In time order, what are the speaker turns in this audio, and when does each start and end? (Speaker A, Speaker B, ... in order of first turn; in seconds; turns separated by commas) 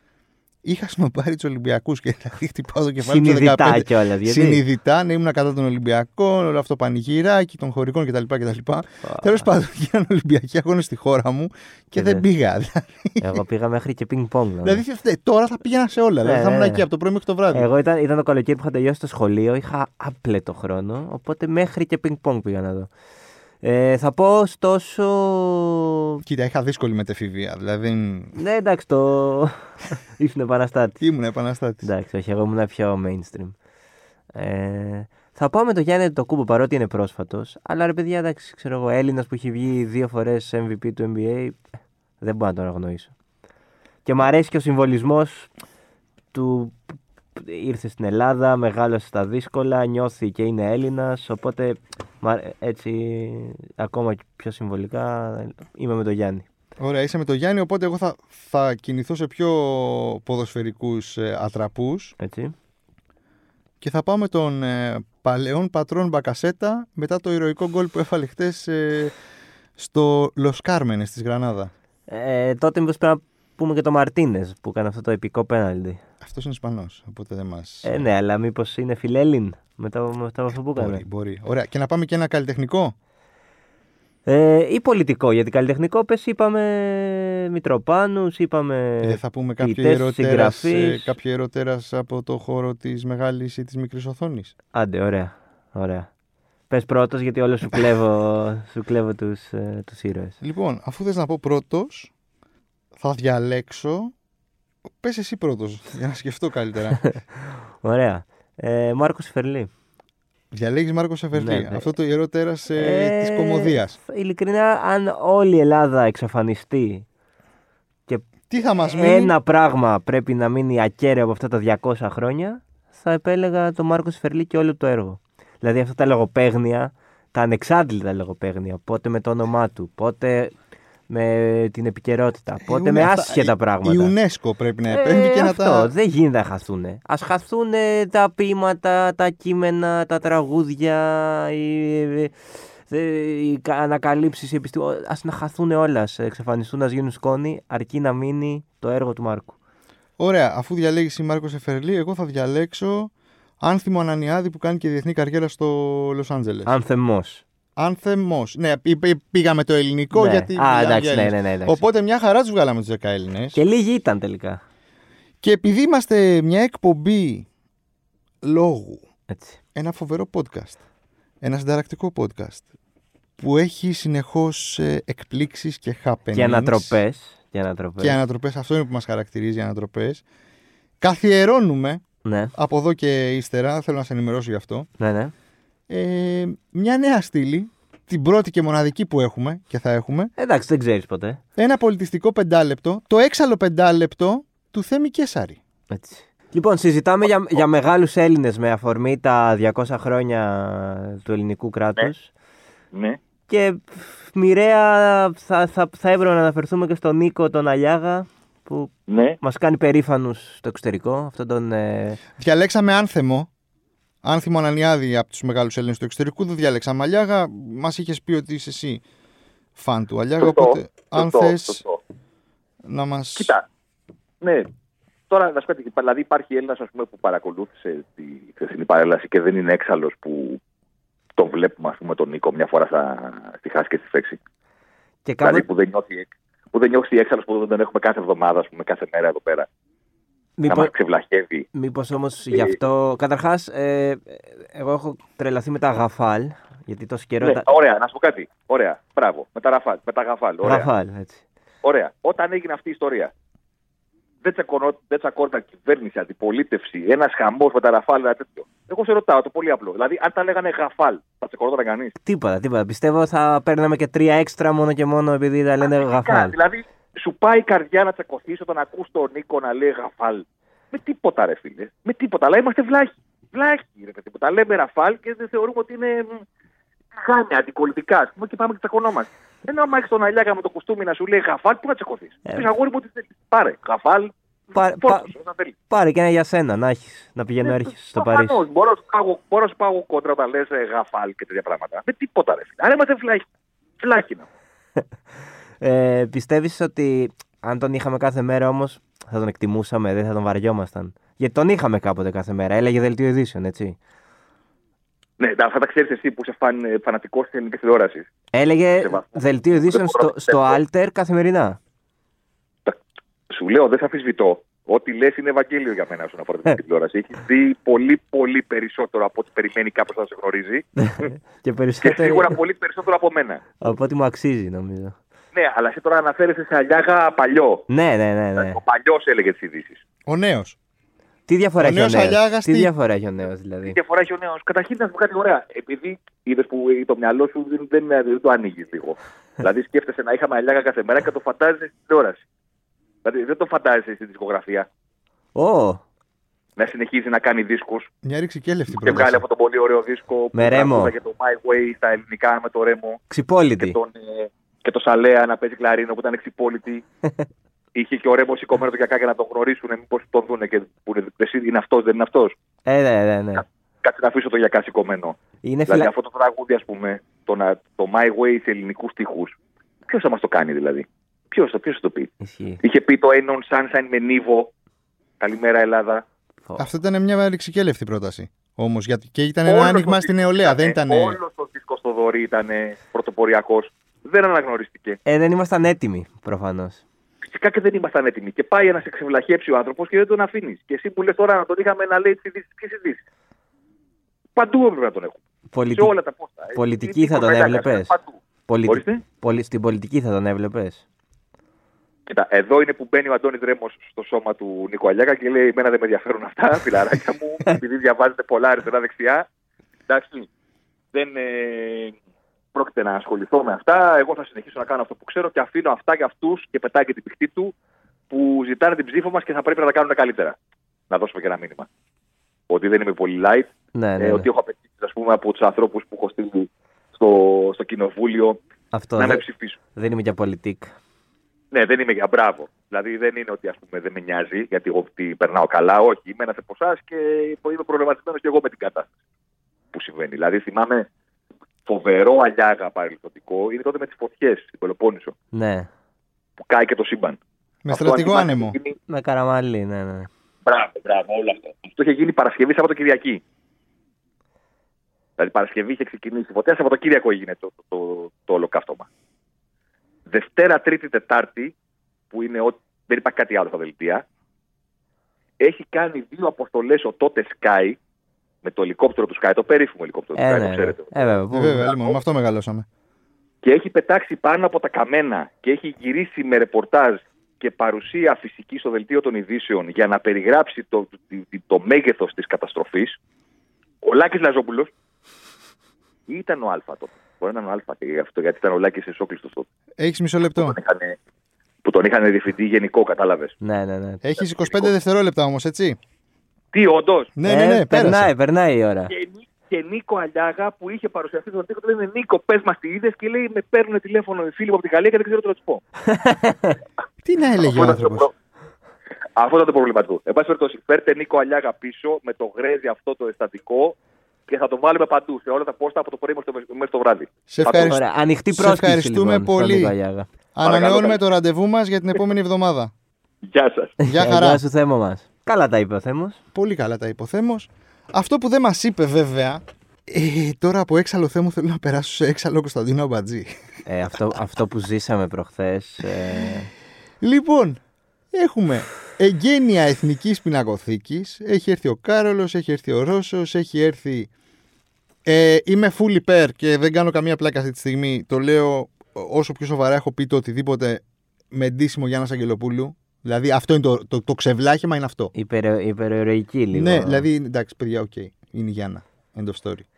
Speaker A: 0.6-13.4, Speaker B: 3.0-4.6, Speaker B: 9.1-9.4, Speaker B: 12.0-12.3, Speaker B: 13.2-14.8, Speaker A: 14.6-17.7, Speaker B: 16.2-16.9, Speaker B: 17.5-22.9, Speaker B: 23.6-26.2, Speaker A: 26.2-28.4, Speaker B: 28.4-31.0, Speaker A: 31.0-31.9, Speaker B: 31.8-33.6, Speaker B: 34.3-41.6, Speaker B: 42.2-43.1, Speaker B: 44.0-45.5, Speaker B: 46.3-46.8, Speaker B: 47.4-56.5, Speaker A: 56.8-62.1, Speaker B: 62.2-62.5, Speaker A: 63.8-69.2, Speaker A: 69.8-71.7, Speaker B: 72.1-76.0, Speaker A: 76.2-78.1, Speaker B: 77.8-81.0, Speaker A: 80.8-83.0, Speaker B: 84.3-91.1, Speaker A: 89.0-94.5, Speaker B: 94.7-96.1, Speaker B: 96.7-100.4, Speaker A: 100.4-102.1, Speaker A: 103.0-104.1, Speaker A: 105.0-107.0, Speaker B: 107.0-109.7, Speaker A: 110.5-114.0, Speaker B: 111.3-111.9, Speaker B: 112.7-117.0, Speaker A: 118.5-119.3, Speaker B: 118.9-130.5, Speaker B: 131.1-134.2, Speaker A: 132.6-135.9, Speaker B: 134.9-142.3, Speaker B: 142.9-149.6, Speaker A: 150.2-156.8, Speaker B: 156.7-157.4, Speaker A: 157.8-163.6, Speaker B: 160.1-161.8, Speaker B: 163.5-164.6, Speaker A: 165.4-167.5, Speaker A: 168.4-169.0, Speaker B: 169.3-169.6, Speaker A: 169.8-170.8, Speaker A: 171.4-172.7, Speaker A: 173.4-177.0, Speaker B: 176.3-178.2, Speaker A: 178.0-180.2, Speaker A: 181.0-182.0, Speaker B: 182.2-182.5, Speaker A: 182.6-184.9, Speaker B: 185.0-185.3, Speaker A: 185.9-190.3, Speaker B: 190.4-191.4, Speaker A: 191.6-195.6, Speaker B: 195.9-202.3, Speaker C: 202.9-203.2, Speaker B: 203.5-212.2, Speaker C: 209.1-209.4, Speaker A: 212.4-213.5, Speaker A: 214.2-219.0, Speaker A: 219.8-221.8, Speaker C: 220.4-222.0, Speaker A: 222.8-223.6, Speaker C: 223.4-223.7, Speaker C: 224.4-224.7, Speaker C: 225.3-230.6, Speaker C: 231.4-234.4, Speaker B: 235.2-235.7, Speaker C: 235.4-239.7, Speaker B: 240.6-240.9, Speaker C: 240.7-241.7, Speaker B: 241.7-247.7, Speaker C: 242.5-242.8, Speaker C: 247.4-250.9, Speaker B: 250.6-251.4, Speaker C: 251.8-253.3, Speaker C: 254.4-262.1, Speaker B: 262.2-266.6, Speaker C: 265.9-276.4, Speaker C: 277.1-285.7, Speaker B: 284.7-285.3, Speaker B: 285.9-288.6, Speaker C: 287.6-293.4, Speaker C: 294.0-294.5, Speaker B: 295.8-304.0, Speaker C: 305.4-308.3, Speaker B: 308.5-311.8, Speaker C: 309.0-310.8, Speaker C: 313.5-321.3, Speaker B: 321.0-322.6, Speaker C: 322.0-323.9, Speaker B: 323.8-325.2, Speaker C: 325.5-327.9, Speaker B: 327.9-328.8, Speaker C: 328.6-330.0, Speaker A: 330.3-330.8, Speaker B: 331.5-334.0, Speaker A: 331.8-332.9, Speaker C: 333.9-342.4, Speaker C: 343.2-344.9, Speaker B: 345.6-346.0, Speaker C: 346.8-348.1, Speaker A: 348.2-349.4, Speaker C: 348.9-353.2, Speaker B: 350.6-351.1, Speaker B: 353.3-354.0, Speaker C: 353.8-357.0, Speaker C: 357.9-362.5, Speaker B: 362.9-363.6, Speaker C: 364.0-369.5, Speaker B: 365.6-366.1, Speaker C: 370.1-374.7, Speaker B: 372.4-372.8, Speaker C: 375.4-376.2, Speaker B: 376.7-376.9, Speaker A: 376.8-381.4, Speaker C: 379.7-385.2, Speaker B: 385.3-387.0, Speaker C: 387.4-393.2, Speaker C: 394.6-395.4, Speaker B: 395.7-396.1, Speaker C: 395.9-398.3, Speaker B: 396.8-398.1, Speaker B: 398.7-401.0, Speaker C: 398.9-399.2, Speaker C: 402.3-409.5, Speaker C: 410.1-410.5, Speaker C: 411.1-412.1, Speaker C: 412.7-417.7, Speaker C: 418.3-420.6, Speaker C: 421.1-421.9, Speaker C: 422.7-428.6, Speaker B: 423.9-424.5, Speaker B: 428.9-429.4, Speaker C: 429.2-429.8, Speaker B: 429.9-430.9, Speaker C: 431.7-439.1, Speaker C: 439.9-441.1, Speaker C: 441.9-445.3, Speaker B: 445.5-445.9, Speaker C: 446.6-447.4, Speaker A: 447.8-448.8, Speaker C: 447.9-449.0, Speaker B: 449.1-450.3, Speaker C: 450.7-453.4, Speaker C: 455.4-459.1, Speaker C: 460.3-461.7, Speaker C: 462.3-464.2, Speaker C: 465.6-468.0, Speaker C: 468.6-471.3, Speaker B: 470.4-471.9, Speaker A: 471.5-472.9, Speaker C: 473.6-483.2, Speaker C: 484.0-484.9, Speaker C: 486.3-489.7, Speaker A: 490.0-490.8, Speaker C: 490.5-491.2, Speaker C: 491.8-493.6, Speaker B: 493.6-494.2, Speaker A: 494.2-496.0, Speaker C: 494.4-494.9, Speaker C: 496.7-497.3, Speaker A: 497.4-498.3, Speaker B: 497.5-499.1, Speaker C: 499.1-505.9, Speaker B: 506.1-506.8, Speaker A: 507.2-508.3, Speaker C: 507.6-508.3, Speaker C: 509.4-514.0, Speaker C: 514.5-518.0, Speaker A: 517.5-518.0, Speaker B: 517.7-520.3, Speaker A: 518.5-519.9, Speaker A: 520.5-522.9, Speaker C: 520.6-521.2, Speaker C: 523.4-524.0, Speaker B: 524.0-526.4, Speaker A: 524.1-524.6, Speaker A: 526.5-533.5, Speaker B: 533.9-536.7, Speaker A: 537.2-537.8, Speaker A: 538.3-544.3, Speaker A: 545.3-555.3, Speaker B: 555.3-557.3, Speaker A: 556.7-559.9